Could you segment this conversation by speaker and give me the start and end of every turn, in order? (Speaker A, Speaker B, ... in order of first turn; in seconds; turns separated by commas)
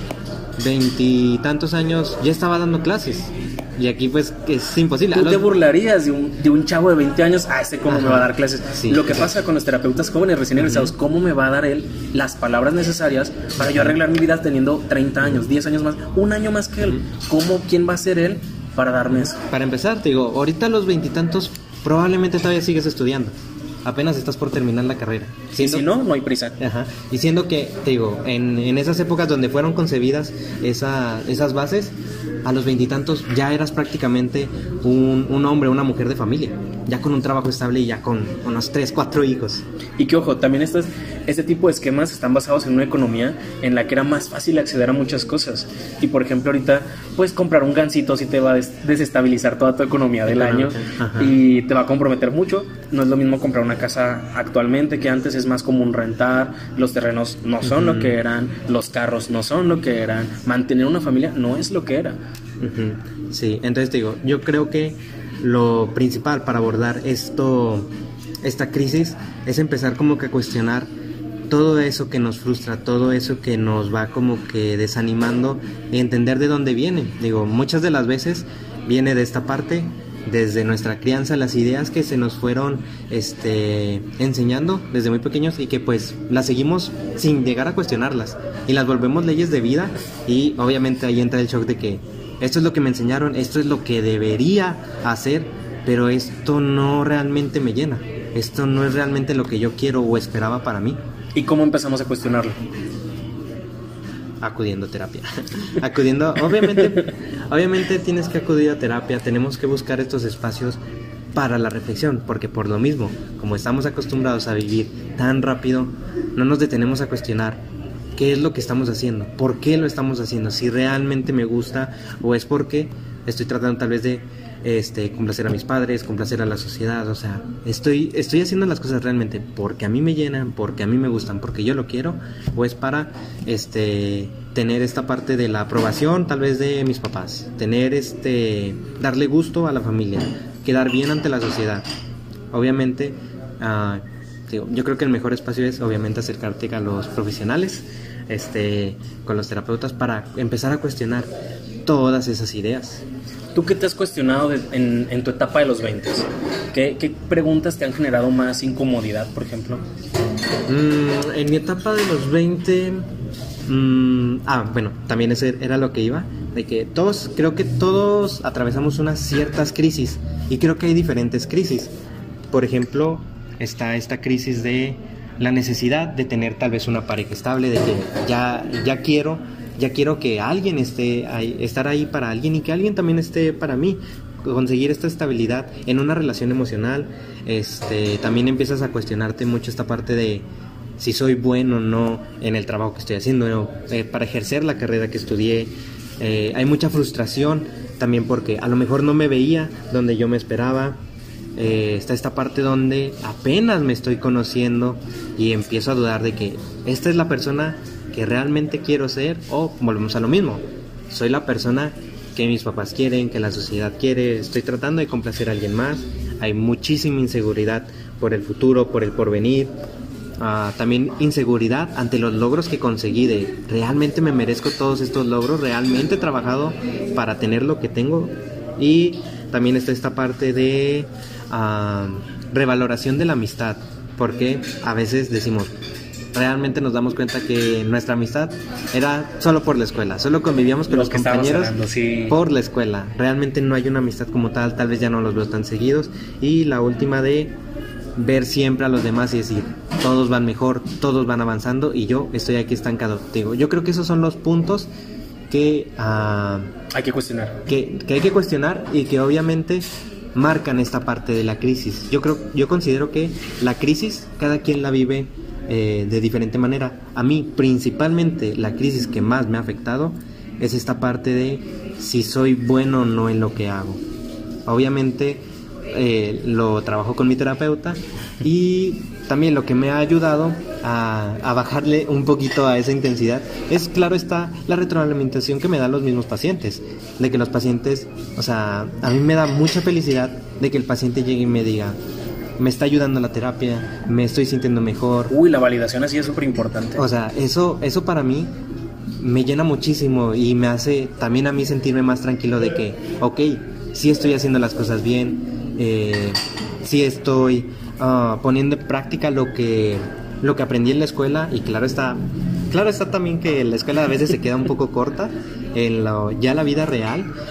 Speaker A: 0.6-5.4, Speaker B: 5.1-19.4, Speaker A: 7.9-9.3, Speaker A: 10.6-10.9, Speaker A: 13.6-14.0, Speaker A: 19.4-23.3, Speaker A: 23.8-25.9, Speaker B: 25.6-26.6, Speaker A: 26.6-39.6, Speaker B: 40.0-62.2, Speaker A: 50.3-51.4, Speaker A: 57.6-58.1, Speaker A: 62.6-67.9, Speaker A: 68.4-70.9, Speaker A: 71.5-101.0, Speaker B: 101.3-102.6, Speaker A: 104.4-110.8, Speaker A: 111.3-117.6, Speaker A: 118.1-141.9, Speaker A: 142.5-151.3, Speaker A: 151.8-153.0, Speaker B: 153.5-159.8, Speaker A: 160.7-163.1, Speaker A: 163.7-171.9, Speaker A: 172.5-190.5, Speaker A: 191.0-201.0, Speaker A: 201.6-219.7, Speaker A: 220.4-235.7, Speaker A: 236.3-241.7, Speaker B: 240.9-242.4, Speaker A: 242.3-247.5, Speaker A: 248.2-254.9, Speaker A: 255.5-256.7, Speaker B: 256.9-257.6, Speaker A: 257.7-274.0, Speaker A: 274.6-292.0, Speaker A: 292.6-295.3, Speaker B: 295.3-297.0, Speaker A: 297.0-298.5, Speaker A: 299.2-317.3